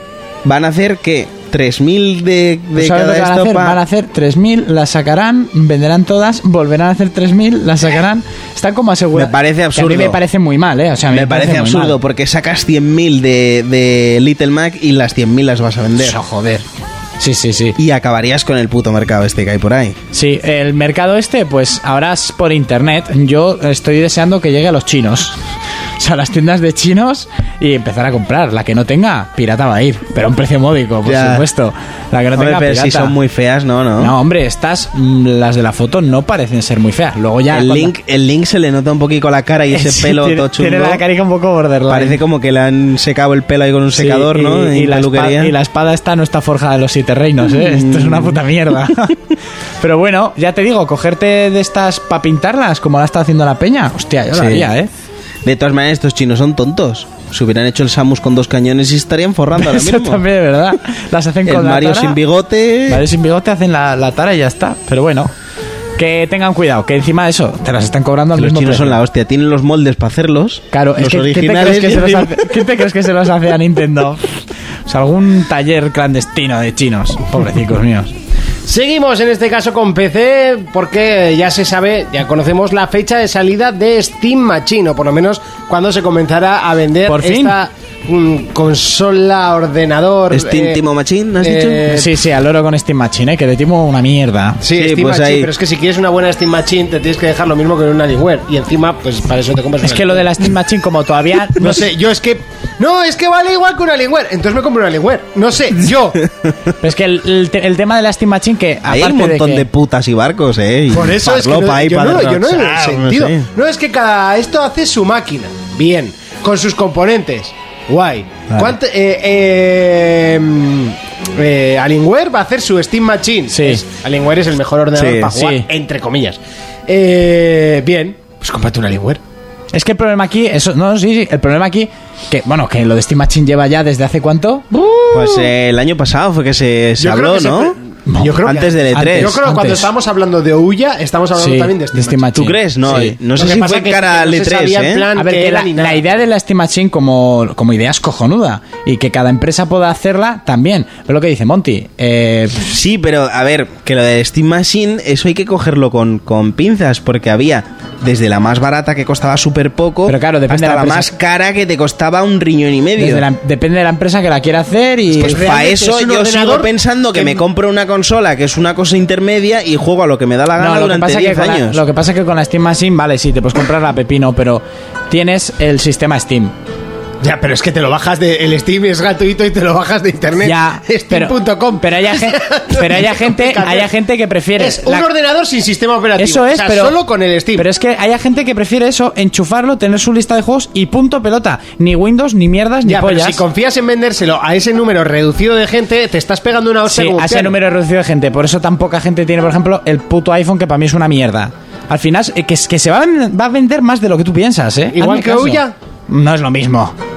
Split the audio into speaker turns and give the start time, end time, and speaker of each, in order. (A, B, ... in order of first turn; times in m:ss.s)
0:00.4-0:03.8 A
0:02.8-0:12.0 B
0:09.1-0:10.2 A
0:11.1-0:16.2 A
0:16.0-0:16.6 B
0:17.2-0:17.8 B
0:17.8-0:20.0 A
0:20.1-0:25.4 B
0:26.0-0:33.2 B
0:31.0-0:31.5 A
0:32.4-0:34.1 A
0:34.0-0:37.9 B
0:37.5-0:41.0 A
0:39.7-0:42.2 B
0:41.9-0:45.6 A
0:44.0-0:49.2 B
0:47.5-0:48.4 A
0:49.8-0:54.9 B
0:54.3-0:54.7 A
0:55.4-1:00.2 A
0:59.6-1:02.2 B
1:01.5-1:03.1 A
1:02.9-1:05.3 B
1:06.0-1:09.0 B
1:08.4-1:12.6 A
1:10.7-1:14.2 B
1:14.9-1:18.1 B
1:18.7-1:30.8 C
1:27.1-1:27.6 B
1:30.3-1:31.9 A
1:31.4-1:32.1 C
1:31.9-1:34.6 B
1:34.6-1:40.5 C
1:34.7-1:35.5 A
1:39.8-1:41.9 B
1:41.6-1:46.2 C
1:46.8-1:49.7 B
1:48.8-1:53.5 A
1:50.9-2:09.2 C
1:58.5-1:58.8 A
2:03.5-2:03.8 B
2:05.0-2:05.3 A
2:05.3-2:05.7 B
2:09.7-2:14.8 B
2:14.9-2:15.2 C
2:15.1-2:17.8 A
2:17.0-2:22.2 C
2:18.1-2:19.9 B
2:18.4-2:19.4 A
2:21.4-2:23.2 B
2:22.4-2:25.1 A
2:23.4-2:26.0 C
2:25.2-2:32.6 B
2:32.6-2:43.3 A
2:40.1-2:41.1 B
2:43.0-2:45.4 B
2:45.2-2:47.4 C
2:45.2-2:51.8 A
2:50.6-2:56.5 B
2:57.2-3:03.9 C
3:00.4-3:05.1 B
3:04.6-3:07.6 C
3:06.2-3:07.0 B
3:07.6-3:13.4 B
3:12.9-3:17.6 C
3:16.9-3:27.0 B
3:25.0-3:25.7 C